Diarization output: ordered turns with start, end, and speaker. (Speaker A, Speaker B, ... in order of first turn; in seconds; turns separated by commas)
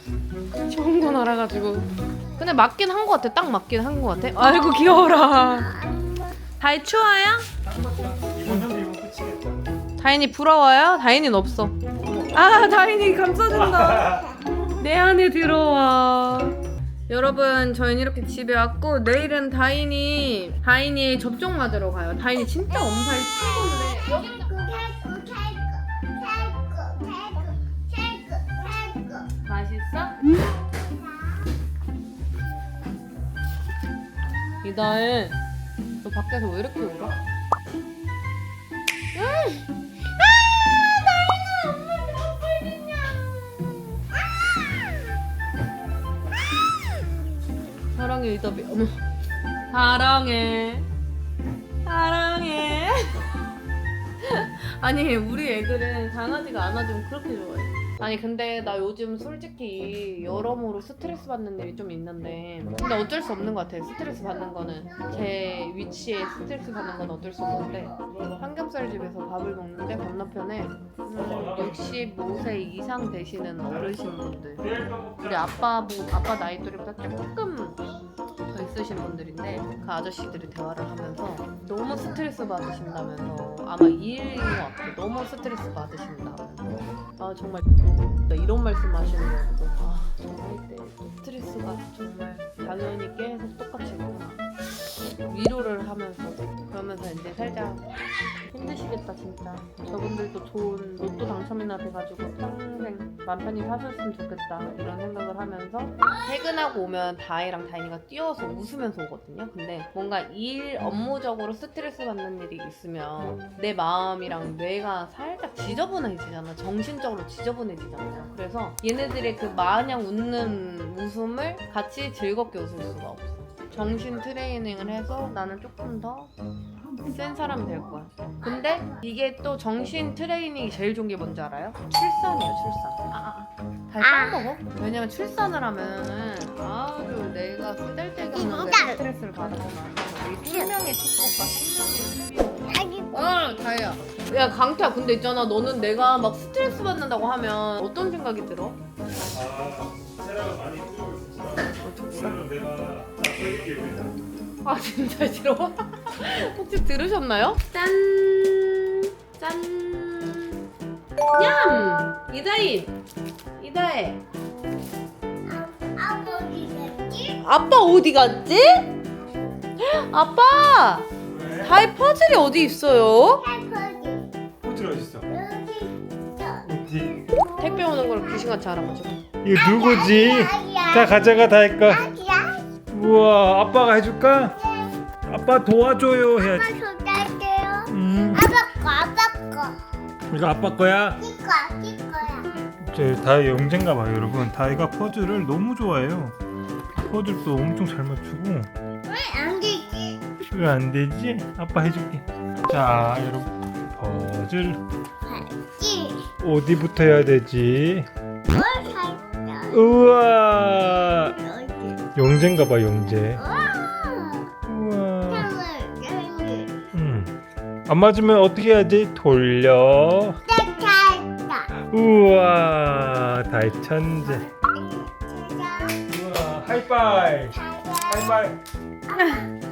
Speaker A: 0.7-5.7, Speaker B: 5.2-6.4, Speaker A: 6.6-7.5, Speaker C: 7.6-9.7, Speaker A: 10.0-11.8, Speaker C: 11.9-12.5, Speaker A: 12.3-14.2, Speaker C: 13.5-14.3, Speaker A: 14.8-16.6, Speaker A: 17.1-24.6, Speaker B: 23.6-29.3, Speaker A: 29.4-30.1, Speaker A: 34.6-35.4, Speaker A: 36.0-37.2, Speaker A: 47.9-49.0, Speaker A: 49.7-50.9, Speaker A: 51.8-53.2, Speaker A: 54.2-74.6, Speaker C: 71.2-72.0, Speaker C: 74.6-75.5, Speaker A: 75.2-77.8, Speaker A: 78.5-97.9, Speaker A: 98.5-126.3, Speaker A: 127.0-148.8, Speaker B: 128.4-129.0, Speaker B: 134.0-134.4, Speaker B: 138.3-139.0, Speaker B: 142.7-143.3, Speaker C: 149.3-154.2, Speaker A: 151.8-152.4, Speaker A: 154.6-160.6, Speaker A: 161.3-162.9, Speaker A: 163.6-164.2, Speaker B: 165.5-167.4, Speaker A: 167.4-168.9, Speaker A: 169.8-171.1, Speaker C: 171.2-171.7, Speaker A: 171.6-173.4, Speaker B: 173.4-174.3, Speaker C: 174.6-175.3, Speaker B: 175.3-176.6, Speaker C: 176.6-177.2, Speaker B: 177.3-178.4, Speaker A: 177.6-179.2, Speaker C: 179.4-182.1, Speaker B: 179.5-182.6, Speaker C: 182.9-184.6, Speaker B: 184.6-184.9, Speaker C: 185.3-186.7, Speaker B: 186.4-189.8, Speaker C: 187.9-188.4, Speaker C: 190.3-191.2, Speaker B: 191.2-192.5, Speaker C: 192.8-196.3, Speaker C: 197.0-198.7, Speaker B: 199.1-200.2, Speaker C: 200.5-204.8, Speaker B: 205.2-206.2, Speaker C: 206.4-208.1, Speaker B: 208.5-209.9, Speaker C: 209.7-211.3, Speaker B: 211.4-212.0, Speaker C: 212.2-213.4, Speaker B: 213.3-214.5, Speaker C: 214.7-215.5, Speaker B: 215.3-216.9, Speaker C: 216.9-217.3, Speaker C: 217.9-220.4, Speaker B: 220.4-221.7, Speaker C: 221.9-224.5, Speaker B: 224.7-226.0, Speaker C: 226.1-228.6, Speaker B: 227.5-228.4, Speaker A: 229.1-229.4, Speaker B: 229.1-229.5